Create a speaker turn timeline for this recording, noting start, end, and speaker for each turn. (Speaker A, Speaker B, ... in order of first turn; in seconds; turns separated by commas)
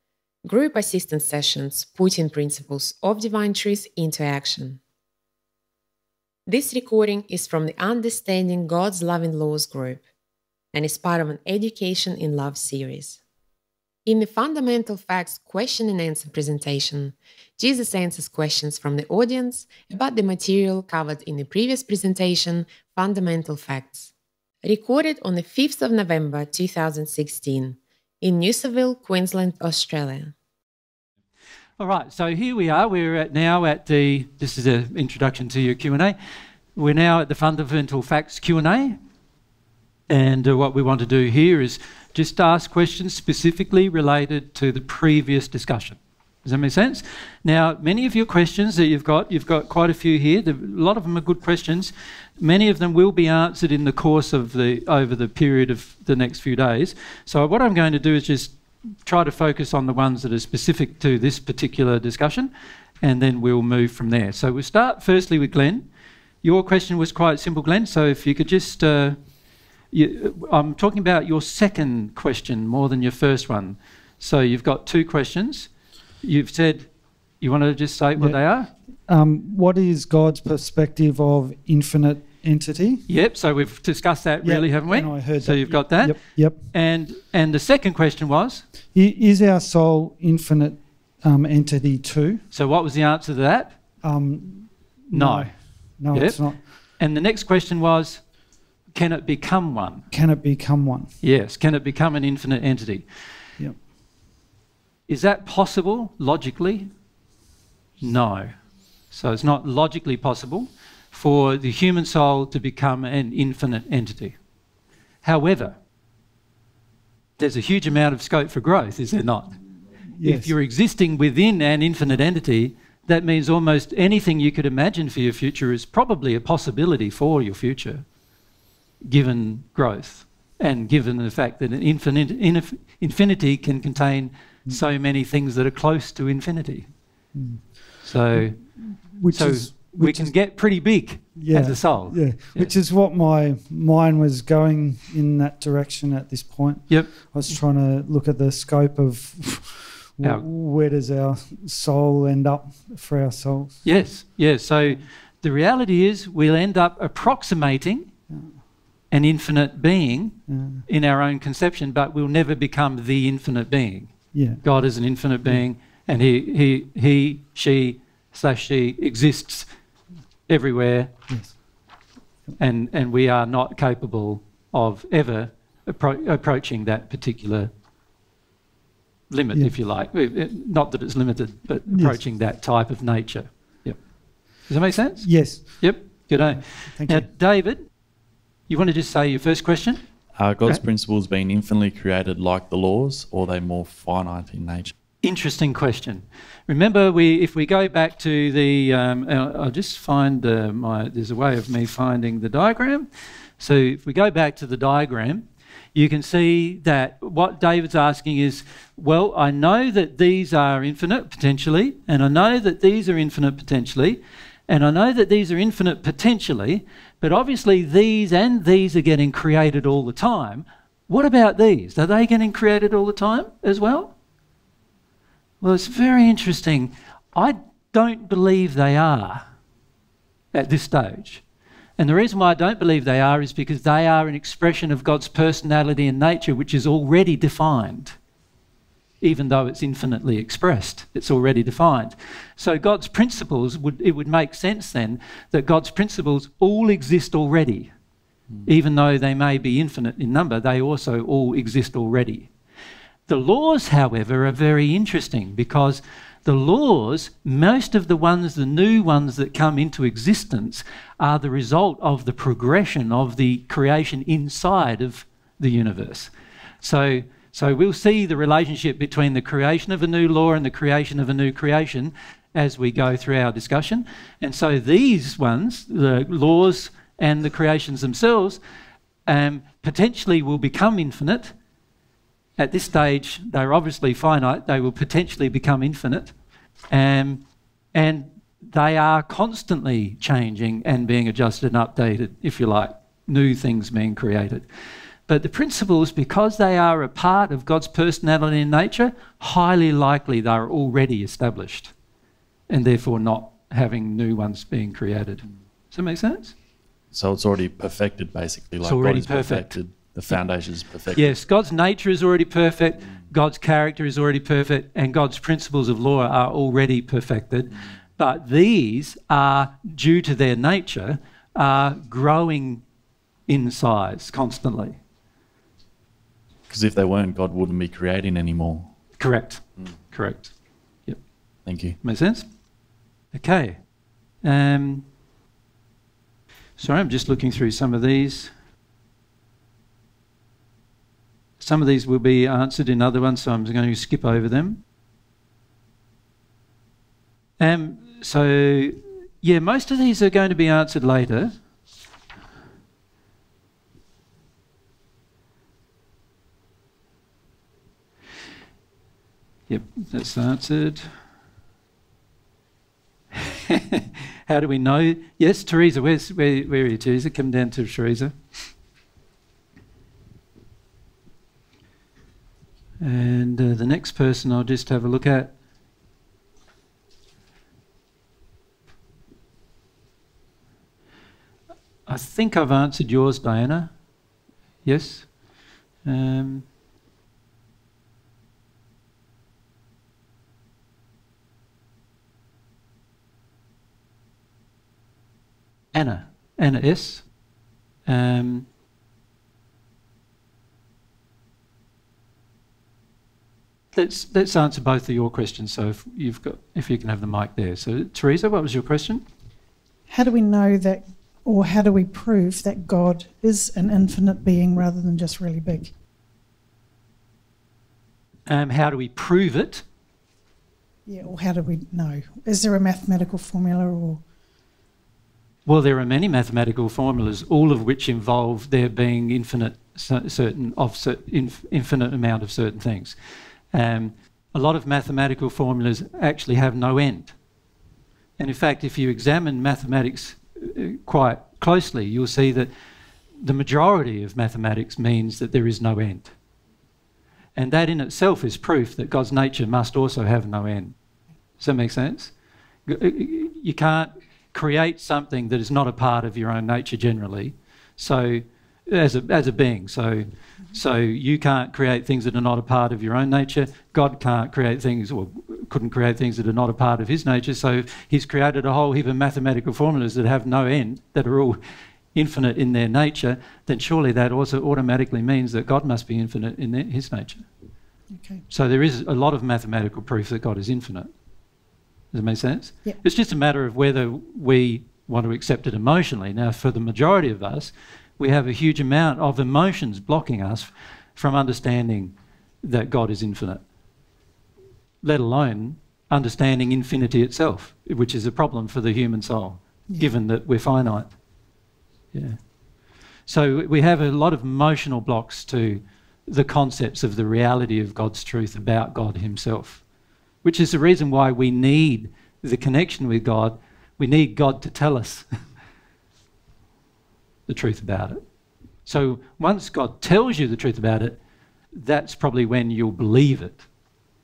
Speaker A: 0.4-4.8, Speaker A: 6.5-10.0, Speaker A: 10.7-13.2, Speaker A: 14.1-24.1, Speaker A: 24.6-30.3, Speaker B: 31.8-36.1, Speaker B: 36.7-39.0, Speaker B: 40.1-65.8, Speaker B: 66.4-69.2, Speaker B: 69.9-75.7, Speaker B: 76.2-78.7, Speaker C: 78.2-83.0, Speaker B: 83.1-88.7, Speaker C: 84.4-86.7, Speaker C: 88.9-92.4, Speaker B: 92.5-93.8, Speaker C: 94.0-96.7, Speaker B: 95.1-98.3, Speaker B: 98.9-100.0, Speaker C: 100.1-101.1, Speaker B: 101.2-103.1, Speaker B: 105.1-106.9, Speaker B: 108.0-108.5, Speaker B: 109.1-114.3, Speaker B: 115.2-115.8, Speaker B: 117.4-119.5, Speaker C: 120.1-120.5, Speaker B: 120.2-128.0, Speaker B: 129.0-136.9, Speaker C: 137.3-140.5, Speaker B: 138.0-142.7, Speaker C: 141.3-154.0, Speaker B: 146.9-147.6, Speaker B: 153.8-158.1, Speaker C: 158.3-158.6, Speaker B: 159.1-169.7, Speaker C: 160.5-160.8, Speaker C: 164.3-164.6, Speaker B: 170.5-171.1, Speaker C: 171.3-171.6, Speaker B: 172.6-177.7, Speaker B: 179.3-187.9, Speaker C: 181.9-182.2, Speaker C: 185.2-185.9, Speaker C: 186.9-187.3, Speaker B: 188.7-190.0, Speaker D: 190.3-194.9, Speaker B: 195.2-203.1, Speaker B: 203.6-224.1, Speaker B: 225.6-229.4, Speaker B: 230.5-231.4, Speaker B: 232.0-238.2, Speaker B: 239.2-247.9, Speaker B: 248.7-252.5, Speaker B: 253.3-278.6, Speaker B: 279.3-281.5, Speaker B: 282.6-286.3, Speaker B: 286.9-287.4, Speaker B: 287.9-294.6, Speaker B: 295.3-301.9, Speaker B: 302.7-306.5, Speaker D: 307.1-311.4, Speaker B: 308.8-309.8, Speaker B: 311.1-322.8, Speaker B: 323.5-325.0, Speaker D: 326.7-328.9, Speaker B: 329.2-330.5, Speaker D: 331.6-332.0, Speaker B: 332.0-332.4, Speaker B: 333.3-333.8, Speaker B: 334.4-335.0, Speaker B: 336.8-338.5, Speaker B: 341.6-344.8, Speaker B: 347.6-351.5, Speaker B: 359.7-361.1, Speaker B: 363.4-368.3, Speaker B: 373.0-375.5, Speaker B: 382.1-383.9, Speaker B: 384.8-385.3, Speaker B: 386.0-386.6, Speaker B: 395.9-397.2, Speaker B: 398.1-398.6, Speaker B: 403.9-409.2, Speaker E: 410.1-415.9, Speaker B: 418.5-419.8, Speaker E: 421.1-424.2, Speaker B: 425.6-433.1, Speaker B: 433.7-437.3, Speaker B: 438.4-442.7, Speaker B: 443.4-446.3, Speaker B: 447.6-450.9, Speaker B: 451.6-452.3, Speaker B: 452.9-471.6, Speaker B: 472.1-477.4, Speaker E: 478.1-478.4, Speaker B: 478.5-481.1, Speaker B: 482.1-493.6, Speaker B: 495.0-501.1, Speaker B: 502.1-502.4, Speaker B: 503.2-509.8, Speaker B: 510.4-515.2, Speaker B: 517.5-518.2, Speaker B: 518.9-521.2, Speaker B: 521.7-523.6